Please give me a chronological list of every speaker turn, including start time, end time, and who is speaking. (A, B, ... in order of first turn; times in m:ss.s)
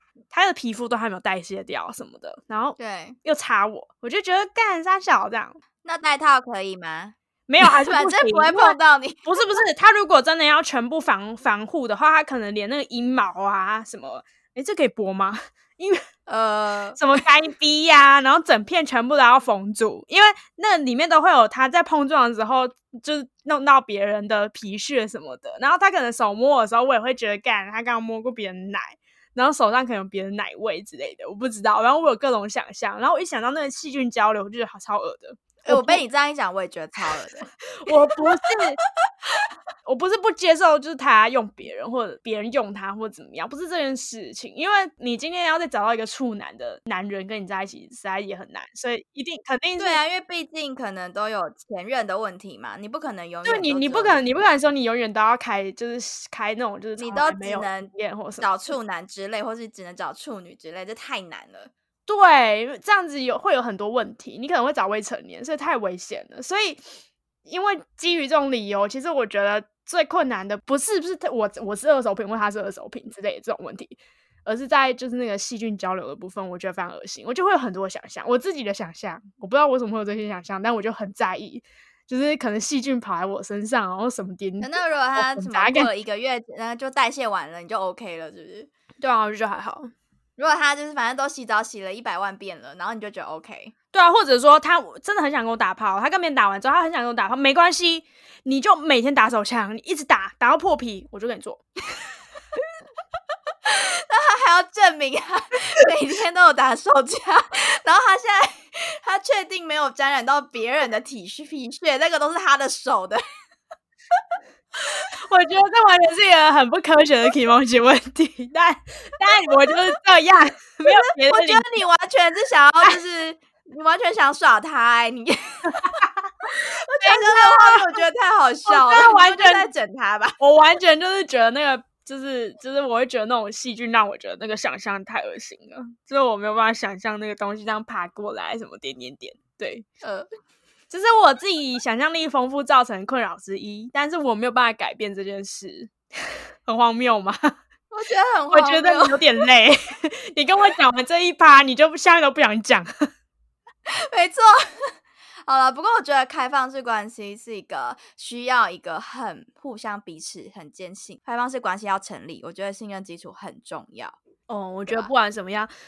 0:00.3-0:05.6 A
0:02.8-0:03.2 B
0:05.8-0:09.4 B
0:07.5-0:16.0 A
0:16.3-0:17.0 B
0:17.0-0:36.0 A
0:35.7-0:37.5 B
0:37.8-0:38.8 A
0:38.2-0:38.6 B
0:39.8-0:50.0 A
0:49.8-0:54.2 B
0:53.4-0:58.7 A
0:57.0-1:01.7 B
1:02.1-1:06.8 A
1:07.5-1:25.9 A
1:24.6-1:28.7 B
1:29.0-1:29.9 A
1:30.4-1:33.7 B
1:33.9-1:41.6 A
1:43.6-1:53.2 B
1:55.3-2:01.6 A
1:59.5-1:59.8 B
2:00.9-2:10.4 B
2:05.8-2:06.2 A
2:07.0-2:08.0 A
2:08.7-2:09.7 A
2:10.4-2:19.8 A
2:20.0-2:20.3 B
2:20.9-2:27.5 A
2:27.9-2:29.4 B
2:28.5-2:32.9 A
2:33.9-2:34.9 B
2:35.5-2:44.2 B
2:44.5-2:45.7 A
2:44.9-2:45.1 B